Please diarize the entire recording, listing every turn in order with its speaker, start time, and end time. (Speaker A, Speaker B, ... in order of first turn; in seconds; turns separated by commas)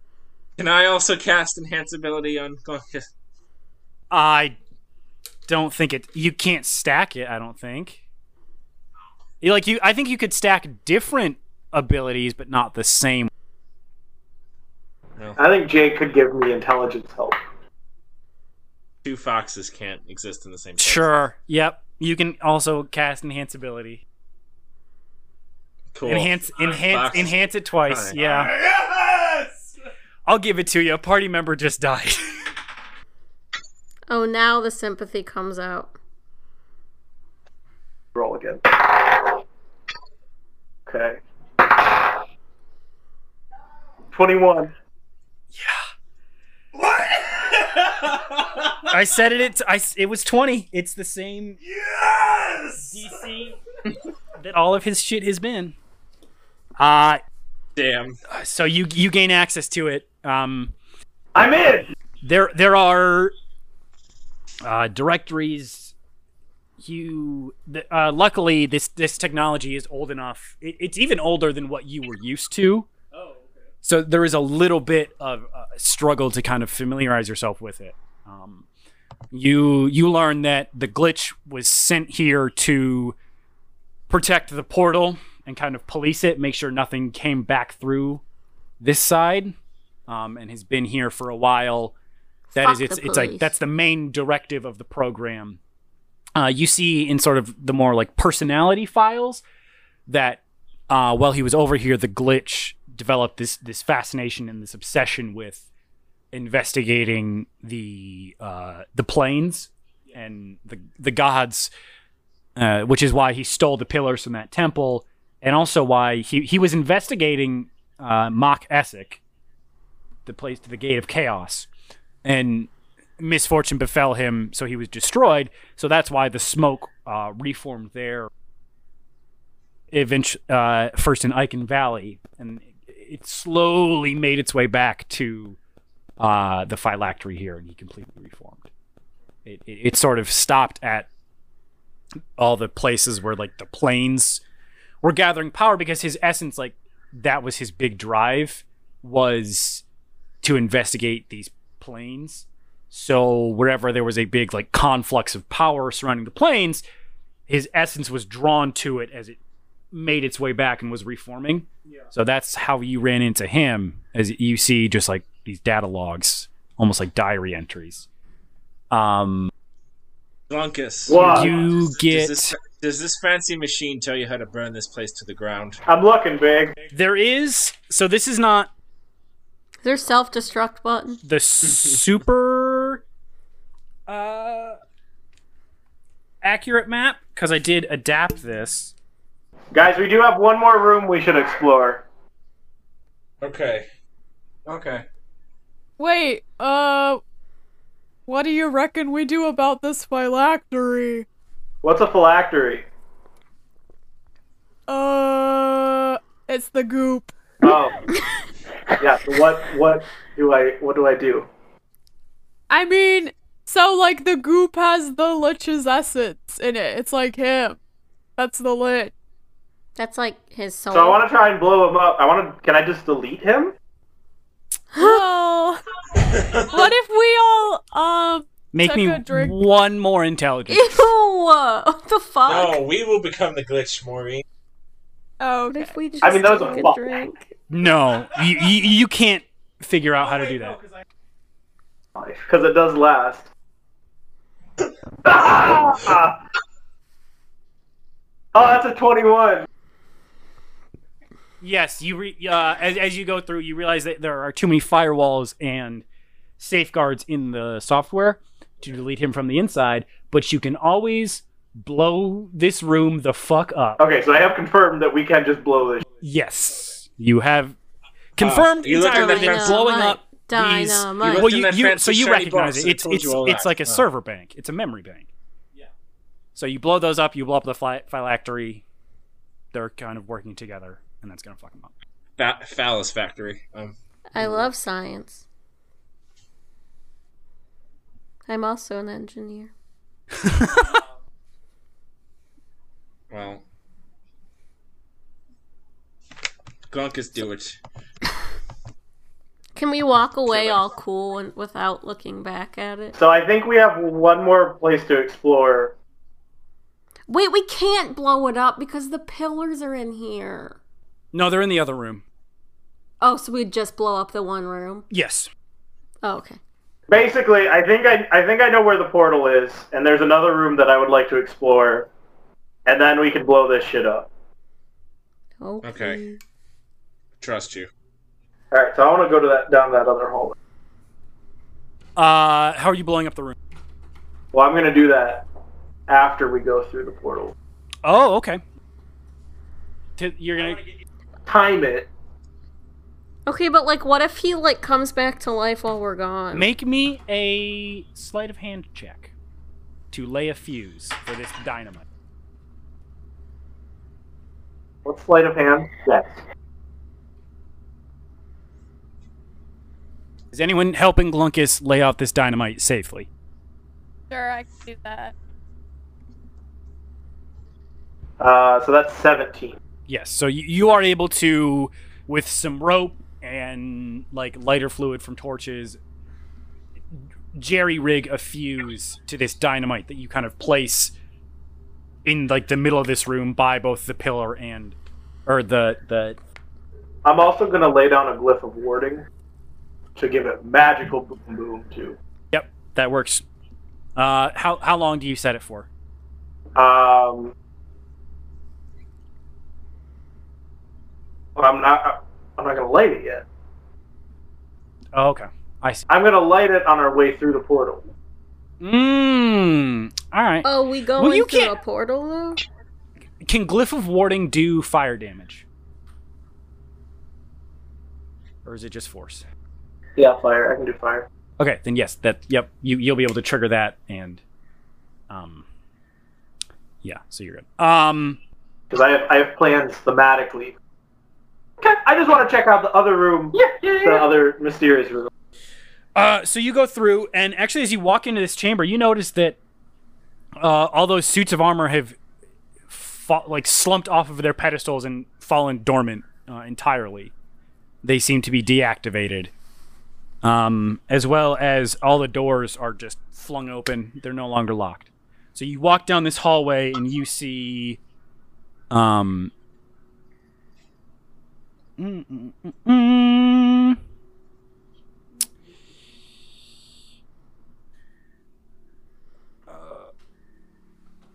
Speaker A: 0.6-3.0, Speaker B: 4.1-4.6, Speaker B: 5.5-8.0, Speaker B: 9.4-13.3, Speaker C: 15.3-17.4, Speaker A: 19.0-21.3, Speaker B: 20.8-24.0, Speaker A: 25.9-27.3, Speaker B: 26.1-28.5, Speaker A: 27.9-29.4, Speaker B: 30.3-32.4, Speaker D: 34.1-35.9, Speaker C: 38.1-39.4, Speaker C: 40.9-42.2, Speaker C: 44.1-44.7, Speaker A: 46.8-48.3, Speaker B: 48.9-51.6, Speaker A: 51.7-52.8, Speaker B: 52.9-53.6, Speaker B: 54.4-55.7, Speaker B: 56.8-57.2, Speaker A: 57.8-58.2, Speaker B: 58.3-60.7, Speaker C: 61.3-61.9, Speaker B: 62.2-63.3, Speaker B: 64.6-65.9, Speaker B: 66.8-72.9, Speaker B: 73.8-78.7, Speaker B: 79.3-83.2, Speaker B: 84.1-88.2, Speaker B: 88.8-89.5, Speaker B: 90.1-91.9, Speaker D: 92.5-93.5, Speaker B: 92.5-95.6, Speaker B: 96.3-99.4, Speaker B: 100.1-105.6, Speaker B: 106.3-111.7, Speaker B: 112.5-119.2, Speaker B: 120.2-121.7, Speaker B: 122.2-128.3, Speaker B: 129.9-135.6, Speaker B: 136.2-138.7, Speaker B: 139.4-141.1, Speaker B: 142.4-144.4, Speaker B: 145.0-149.8, Speaker B: 150.4-156.8, Speaker B: 157.5-159.4, Speaker B: 159.9-168.1, Speaker B: 168.9-169.5, Speaker A: 170.5-175.8, Speaker C: 171.1-171.6, Speaker B: 171.2-172.6, Speaker C: 175.9-176.8, Speaker B: 176.9-178.7, Speaker D: 179.8-181.2, Speaker B: 181.2-183.0, Speaker B: 184.1-184.8, Speaker B: 186.4-188.9, Speaker C: 189.7-192.0, Speaker A: 193.4-193.9, Speaker A: 194.7-195.0, Speaker E: 196.0-197.2, Speaker E: 198.3-201.2, Speaker C: 201.8-202.8, Speaker E: 204.9-207.3, Speaker C: 207.6-208.0, Speaker C: 209.0-211.5, Speaker E: 212.7-217.8, Speaker E: 218.4-219.1, Speaker D: 219.9-221.2, Speaker C: 220.9-223.7, Speaker D: 224.9-225.2, Speaker E: 224.9-225.8, Speaker A: 226.3-226.8, Speaker E: 226.5-229.6, Speaker B: 228.7-231.1, Speaker D: 230.7-232.8, Speaker A: 232.4-234.4, Speaker E: 235.4-236.0, Speaker D: 235.7-237.5, Speaker C: 236.2-237.2, Speaker B: 237.7-240.8, Speaker C: 242.2-243.4, Speaker C: 245.2-246.4, Speaker C: 248.5-249.7, Speaker B: 251.6-256.0, Speaker B: 256.6-264.0, Speaker C: 264.0-266.0, Speaker B: 266.2-267.8, Speaker B: 268.4-275.3, Speaker A: 268.4-270.1, Speaker D: 269.1-271.5, Speaker A: 271.2-274.0, Speaker B: 276.5-278.8, Speaker B: 279.7-281.9, Speaker A: 282.4-283.9, Speaker D: 284.3-285.4, Speaker D: 288.4-289.7, Speaker B: 290.4-290.8, Speaker A: 293.3-293.6, Speaker A: 296.9-297.8, Speaker D: 299.8-303.1, Speaker C: 303.1-305.9, Speaker D: 307.3-310.8, Speaker B: 311.3-312.2, Speaker D: 313.2-315.1, Speaker B: 315.1-315.5, Speaker D: 316.2-316.6, Speaker C: 317.1-322.1, Speaker C: 322.9-324.3, Speaker D: 325.6-326.4, Speaker A: 325.8-326.2, Speaker A: 327.4-327.9, Speaker C: 328.7-330.6, Speaker B: 332.2-333.6, Speaker C: 334.5-335.4, Speaker C: 336.1-337.5, Speaker B: 338.0-338.6, Speaker B: 340.2-340.8, Speaker C: 341.4-342.1, Speaker D: 343.5-346.7, Speaker B: 346.5-349.3, Speaker B: 350.1-352.0, Speaker C: 355.0-356.4, Speaker B: 360.5-363.3, Speaker E: 364.3-365.3, Speaker C: 368.4-369.8, Speaker B: 370.1-376.0, Speaker B: 377.5-381.1, Speaker B: 382.2-384.9, Speaker B: 385.5-386.4, Speaker C: 387.2-389.2, Speaker C: 390.1-392.2, Speaker B: 392.5-393.4, Speaker B: 394.1-395.9, Speaker C: 396.8-397.5, Speaker C: 401.6-403.4, Speaker B: 405.1-406.0, Speaker C: 406.1-408.1, Speaker B: 408.8-411.7, Speaker D: 410.6-412.6, Speaker B: 413.4-415.6, Speaker B: 418.6-419.4, Speaker C: 420.2-421.3, Speaker B: 421.6-424.4, Speaker B: 425.3-425.6, Speaker B: 427.0-428.4, Speaker C: 428.9-430.7, Speaker C: 431.8-435.3, Speaker B: 436.1-439.6, Speaker B: 440.6-442.2, Speaker B: 442.9-447.3, Speaker B: 448.0-449.5, Speaker B: 450.4-458.0, Speaker B: 458.9-459.5, Speaker B: 462.0-464.0, Speaker B: 469.7-470.1